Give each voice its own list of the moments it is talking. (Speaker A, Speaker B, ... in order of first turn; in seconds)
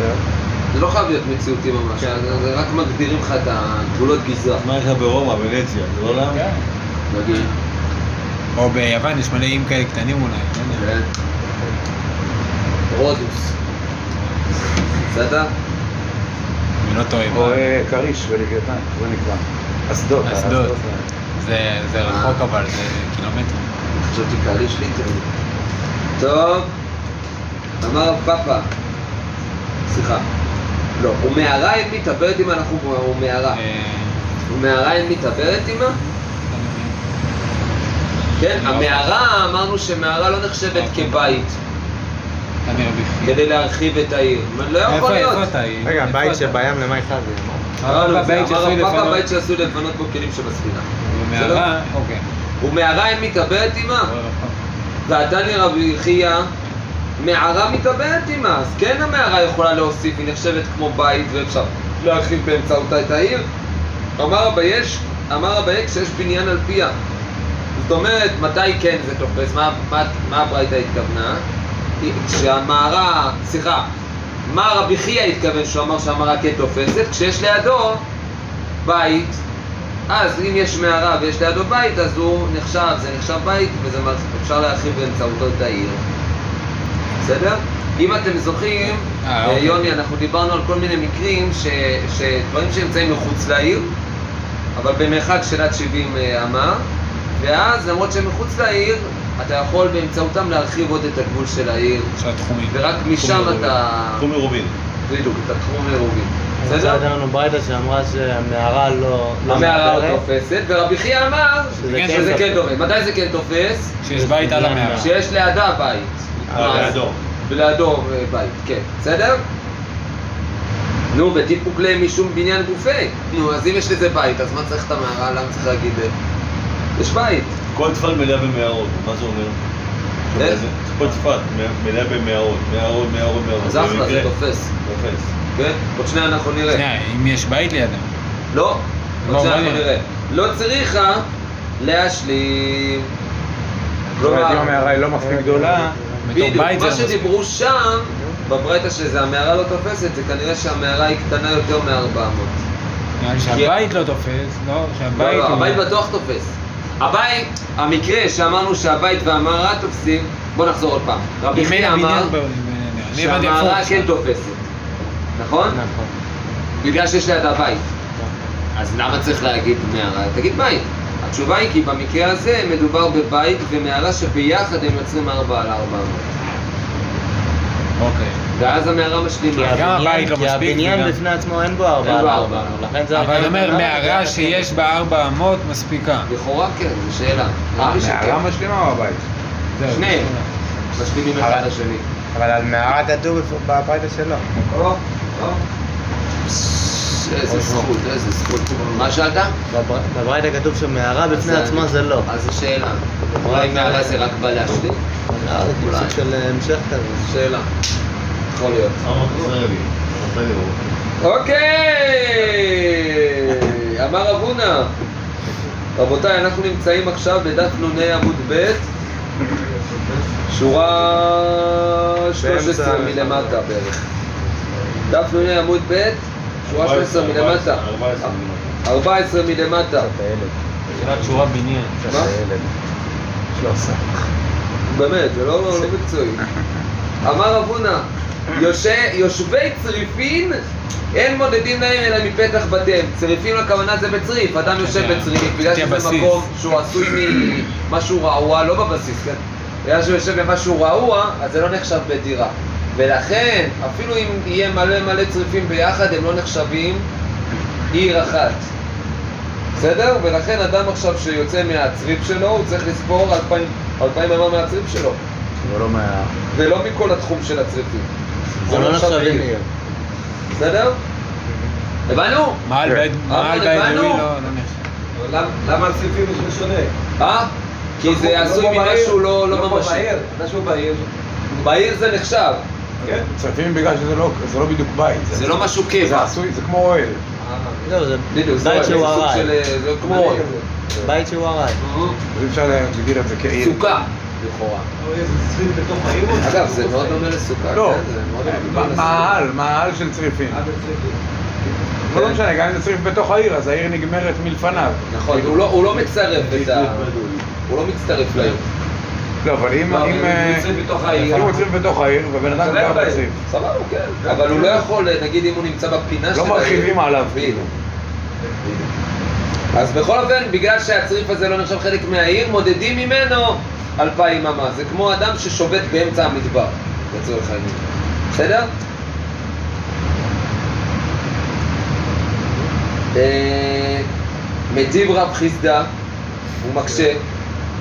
Speaker A: 0.7-4.6, 7.1-7.5, 10.7-11.1, 12.9-13.5, 15.1-15.5, 22.0-22.4, 23.9-25.3, 26.2-26.7, 27.8-28.6, 29.9-30.2, 31.0-33.6, 34.5-36.0, 38.4-41.5, 43.2-45.5, 47.8-51.7, 52.6-54.1, 55.1-56.5, 57.2-63.5, 64.2-66.9, 67.8-71.4, 72.0-73.9, 74.5-78.0, 78.8-79.4, 80.1-86.0, 87.2-93.9, 94.8-96.8, 97.4-102.1, 102.7-104.2, 105.1-107.0, 109.4-113.9, 114.9-119.4, 121.1-126.1, 127.0-127.5, 130.3-130.6, 133.6-134.7, 135.5-136.8, 138.5-141.2, 141.8-143.1, 144.2-144.7, 146.3-152.6, 153.4-153.8, 155.1-162.3, 163.1-164.7, 165.3-165.8, 166.8-167.8, 168.8-176.3, 178.5-180.3, 182.0-182.9, 186.2-188.4, 189.9-190.3, 190.9-192.0, 194.7-195.6, 196.4-199.5, 201.3-206.2, 207.2-207.7, 208.5-209.1, 211.2-214.9, 215.9-218.8, 220.5-224.0, 225.1-230.1, 232.1-232.3, 234.9-236.4, 237.2-240.6, 241.1-257.1, 257.9-258.7, 259.8-265.2, 266.5-268.1, 268.7-269.5, 270.5-271.0, 272.1-272.7, 273.2-274.3, 277.2-280.1, 281.5-282.6, 285.3-286.3, 288.3-291.0, 291.8-292.2, 293.6-294.9, 296.4-299.4, 302.1-302.4, 305.1-307.0, 307.7-308.6, 309.9-311.6, 312.5-317.6, 319.7-328.7, 333.1-334.1, 334.7-335.9, 336.6-337.2
Speaker B: 4.6-6.4, 104.2-104.7, 116.5-117.2, 127.7-129.6, 130.3-134.3, 134.8-135.2, 209.0-210.8, 226.6-228.8, 230.9-231.6
Speaker C: 6.3-6.6, 8.6-10.8, 16.8-17.6, 20.2-20.7, 21.4-23.7, 33.5-34.4, 36.0-37.0, 38.5-39.1, 40.7-41.4, 42.6-43.4, 44.9-46.6, 47.8-49.2, 51.0-52.2, 54.0-54.5, 89.2-90.0, 102.2-103.7, 111.8-112.6, 114.0-115.1, 136.7-138.1, 139.2-139.9, 146.2-147.3, 153.2-155.8, 161.5-164.1, 178.0-178.4, 179.6-181.2, 183.1-186.3, 189.8-190.5, 191.4-191.7, 192.3-193.0, 231.0-231.9, 244.7-246.5, 272.6-274.8
Speaker D: 17.3-21.0, 144.2-146.0, 187.8-189.2, 230.1-230.5, 232.1-232.6, 265.6-266.3, 283.0-287.2, 292.3-294.1, 297.7-300.6, 302.1-305.9, 309.4-313.4, 316.3-317.7
Speaker E: 45.8-47.7, 106.6-110.2, 111.8-112.6, 114.1-115.1, 116.5-117.0, 144.7-146.3, 165.7-166.1, 179.5-184.8, 192.6-194.5, 199.7-202.3, 203.3-204.3, 205.3-207.2, 222.3-223.6, 268.6-269.7, 287.8-289.5, 291.0-291.8
Speaker F: 275.1-276.9, 278.0-281.1, 287.4-287.9, 288.7-289.1, 290.0-290.7, 295.0-297.3, 300.5-301.2, 314.3-314.8